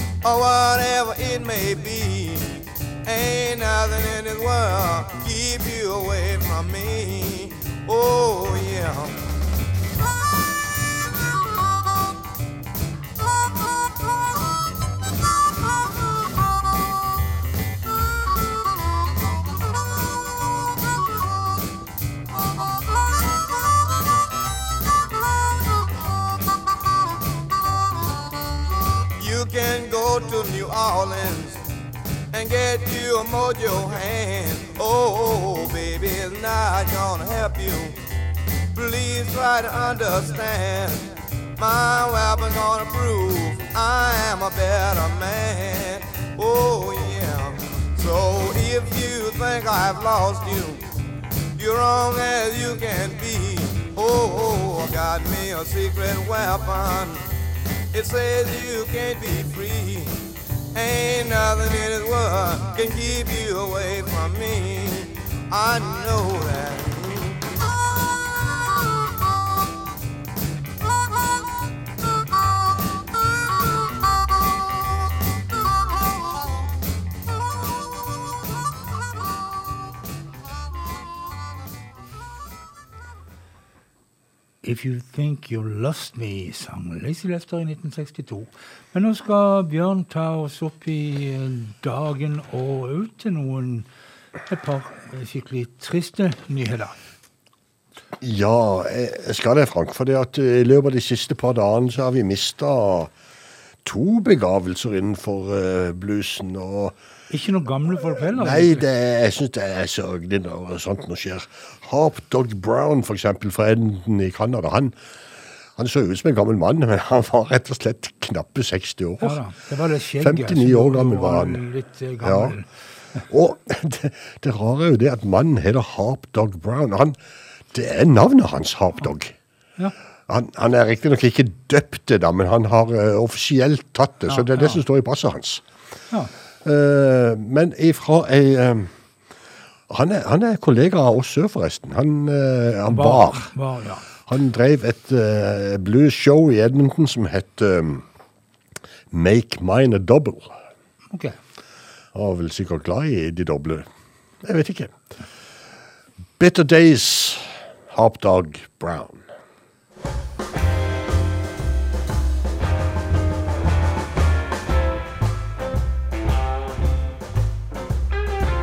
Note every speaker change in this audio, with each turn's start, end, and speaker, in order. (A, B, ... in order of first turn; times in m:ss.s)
0:00.2-0:09.2 A
0:29.2-0:31.6 A
0:32.3-0:38.0 A
0:38.7-0:50.8 A
0:51.6-0:57.2 A
0:57.9-1:00.1 A
1:00.7-1:07.4 A
1:24.6-1:33.9 B
1:34.5-1:37.0 B
1:38.2-1:43.1 C
1:43.8-1:46.9 C
1:47.3-1:48.8 B
1:48.3-1:55.0 C
1:55.8-1:59.4 C
1:59.2-2:02.7 B
2:00.2-2:01.6 C
2:02.2-2:02.6 C
2:03.3-2:07.2 C
2:07.7-2:09.3 C
2:10.3-2:15.6 C
2:14.3-2:14.8 B
2:16.6-2:18.9 C
2:19.9-2:23.5 C
2:22.9-2:24.0 B
2:24.2-2:28.0 C
2:29.1-2:30.6 C
2:31.1-2:31.4 B
2:32.1-2:33.9 C
2:34.4-2:35.0 C
2:36.4-2:39.2 C